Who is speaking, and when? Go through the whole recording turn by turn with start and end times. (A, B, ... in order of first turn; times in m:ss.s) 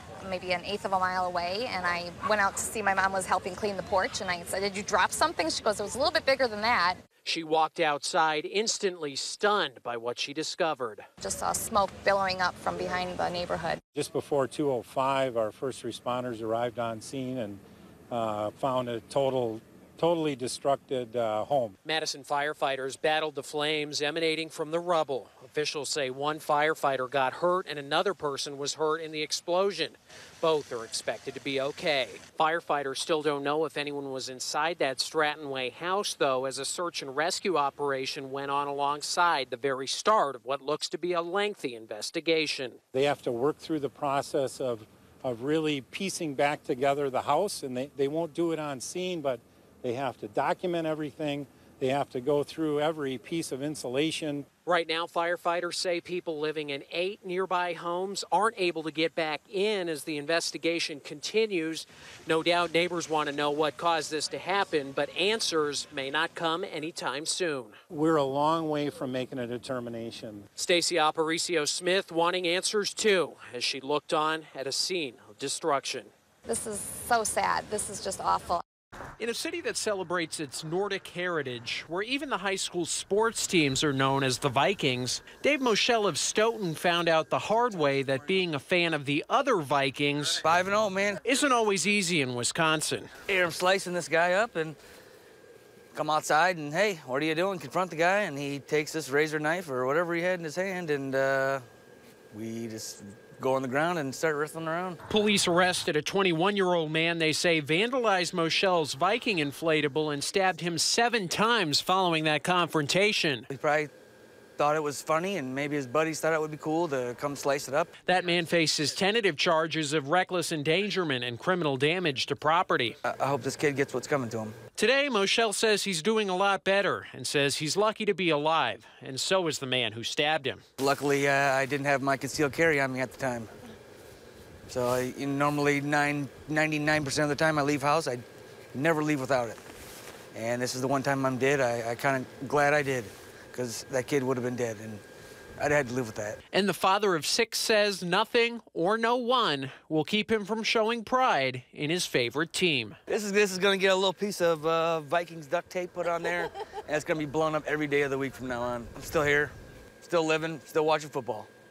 0:00.2-0:07.0 A
0:07.2-0:11.1 B
0:11.2-0:13.8 A
0:14.0-0:21.8 C
0:21.8-0:42.8 B
0:42.9-0:54.5 C
0:54.7-1:07.8 B
1:07.9-1:10.5 C
1:10.6-1:16.1 B
1:16.5-1:18.6 A
1:19.2-1:30.4 B
1:30.4-1:31.2 D
1:31.2-1:33.1 B
1:33.3-1:34.8 D
1:35.9-1:41.6 D
1:42.3-1:45.0 D
1:45.1-1:53.5 B
1:53.5-1:53.9 D
1:54.6-1:57.9 D
1:58.1-2:03.0 B
2:03.0-2:04.6 D
2:04.8-2:10.6 B
2:10.8-2:13.5 D
2:14.7-2:18.2 D
2:18.7-2:19.6 D
2:20.3-2:25.0 D
2:25.6-2:26.4 D
2:26.5-2:33.0 B
2:33.1-2:41.5 D